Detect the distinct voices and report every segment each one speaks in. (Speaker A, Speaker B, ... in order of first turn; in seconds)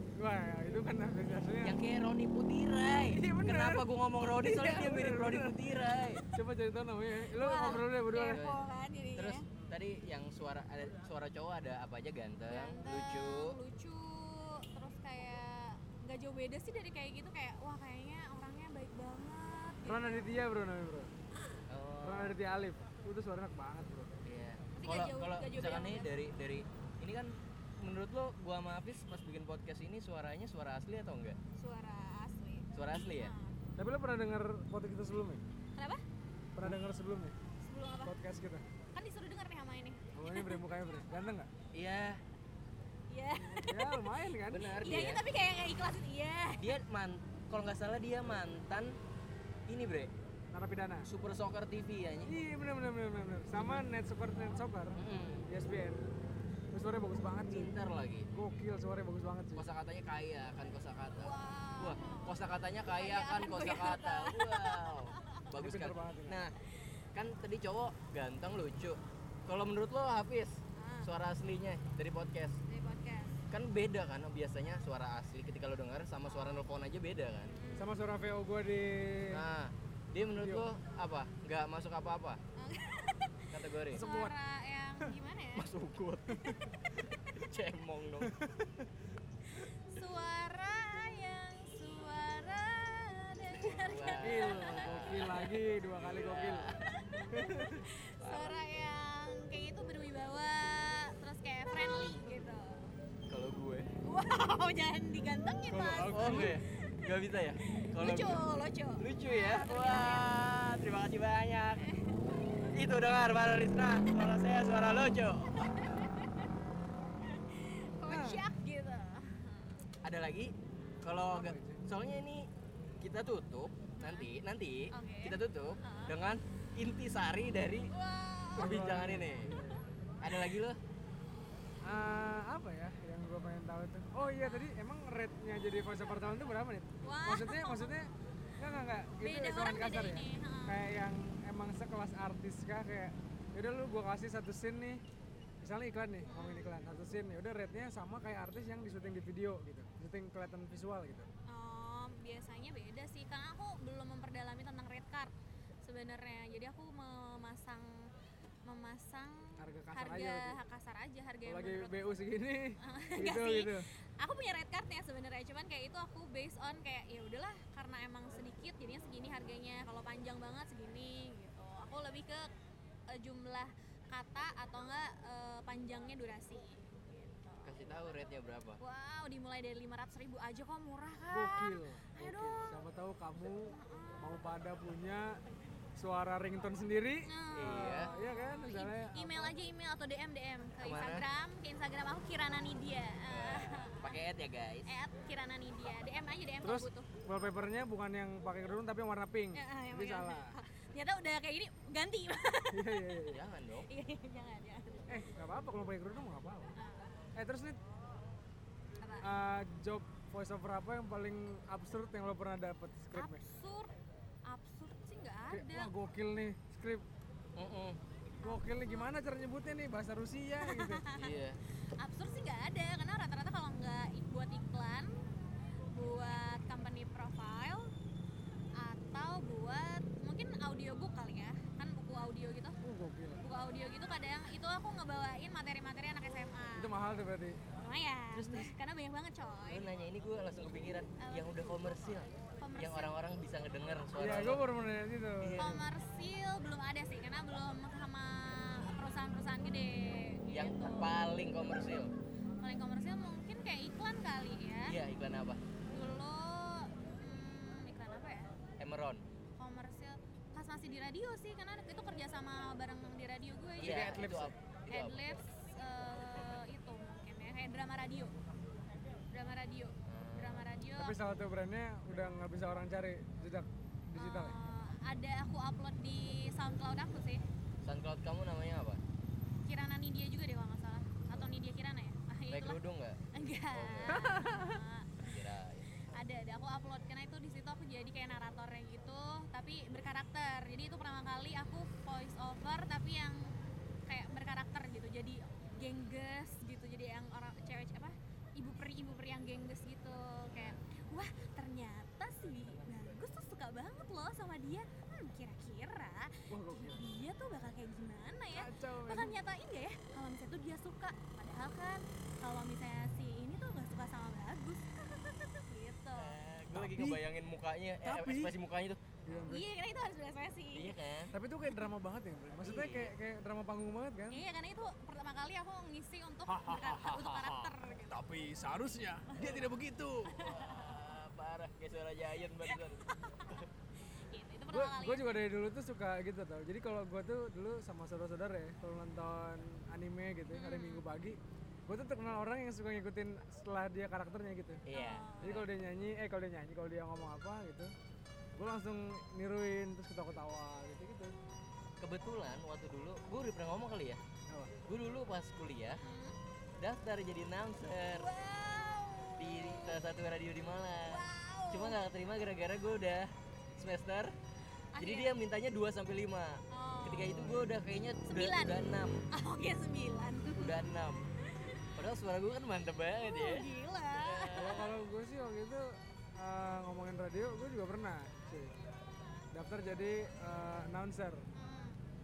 Speaker A: 0.1-1.8, 3.1-5.7, 6.3-8.4, 19.9-21.1, 22.0-24.1, 33.8-35.4, 36.6-37.4, 38.0-38.7, 40.1-41.5, 43.4-44.8, 50.5-51.1, 52.3-56.0, 56.7-57.7, 58.3-59.7, 65.5-66.5, 77.8-79.4, 80.4-80.7, 83.9-84.3, 88.2-88.8, 94.2-96.7, 97.3-97.7, 105.7-106.6, 118.0-118.4, 121.2-121.8, 128.6-129.8, 131.8-145.0, 145.6-151.3, 159.6-160.6, 161.4-163.9, 181.3-185.4, 186.0-187.3, 187.8-189.6, 196.6-200.5, 202.7-203.4, 205.1-206.8, 207.4-207.8, 209.2-213.4, 215.5-217.1, 218.4-221.0, 232.8-233.4, 236.8-237.6, 244.2-245.8, 263.8-264.6, 271.0-274.6, 284.1-284.8, 306.5-307.0, 308.5-309.4, 316.7-317.2, 318.0-318.6, 319.3-319.6, 321.3-324.4, 326.7-327.0, 328.1-330.4, 334.7-344.8, 345.4-347.9, 348.6-351.3, 354.5-354.8, 374.5-378.7, 379.5-381.5
Speaker B: 1.6-6.2, 7.6-8.6, 9.2-13.6, 21.7-22.4, 24.2-31.4, 32.7-33.3, 41.7-42.2, 44.5-45.2, 46.6-49.0, 49.7-50.1, 51.1-52.3, 55.0-55.5, 57.5-58.3, 59.6-66.5, 67.1-72.6, 73.5-77.5, 79.3-82.4, 83.5-84.0, 85.6-88.3, 93.6-96.9, 98.2-98.6, 103.3-103.9, 106.1-108.4, 109.0-111.9, 112.6-116.0, 120.0-122.5, 123.0-127.9, 128.6-129.5, 130.2-130.8, 177.7-178.8, 187.6-188.1, 190.8-191.3, 193.3-194.9, 203.3-203.9, 217.6-218.0, 221.2-221.6, 238.3-238.7, 239.7-244.7, 245.4-245.8, 250.5-252.1, 254.9-255.6, 258.8-259.2, 263.8-265.3, 270.1-270.7, 277.8-279.0, 282.5-284.3, 285.2-285.9, 316.1-319.2, 320.7-321.4, 322.6-323.1, 326.7-327.7, 330.4-333.7, 344.9-345.7, 352.0-354.2, 354.9-356.0, 356.8-358.3, 359.4-364.3, 365.0-369.2, 370.6-371.2, 371.9-373.7, 374.2-374.9
Speaker C: 7.4-9.4, 12.5-20.3, 24.8-26.1, 31.6-33.6, 35.8-36.0, 37.6-38.1, 38.9-40.6, 43.1-44.0, 44.8-46.7, 61.2-65.4, 70.8-71.1, 72.7-73.3, 77.5-77.9, 82.6-85.7, 89.5-95.3, 96.9-102.9, 104.0-107.0, 107.7-110.3, 111.8-112.6, 115.5-116.5, 117.2-119.8, 124.0-124.3, 124.9-126.2, 127.9-128.8, 134.4-134.7, 137.0-137.9, 139.2-140.8, 146.3-146.8, 151.5-155.3, 155.8-158.1, 158.7-162.1, 162.8-172.5, 173.1-177.8, 178.8-182.7, 183.7-184.4, 187.2-194.2, 194.9-197.1, 199.6-202.9, 203.9-205.2, 206.8-207.2, 209.0-209.3, 213.1-213.9, 214.5-215.9, 218.4-219.1, 220.6-221.3, 222.0-225.1, 225.9-227.9, 228.8-232.8, 233.4-236.9, 237.7-239.9, 241.2-241.7, 242.6-243.1, 245.6-251.2, 252.6-255.0, 255.9-258.5, 259.6-264.2, 264.9-268.3, 269.3-271.2, 274.2-277.4, 279.7-282.8, 283.3-285.3, 286.0-293.5, 294.1-316.4, 319.4-320.9, 324.3-328.2, 330.3-331.0, 332.6-335.4, 340.5-341.1, 344.9-345.6, 356.0-356.4, 358.2-360.0, 361.1-362.0, 364.9-365.4, 366.7-367.6, 368.3-368.8, 369.3-370.8, 371.5-371.9, 373.2-374.8, 381.6-382.0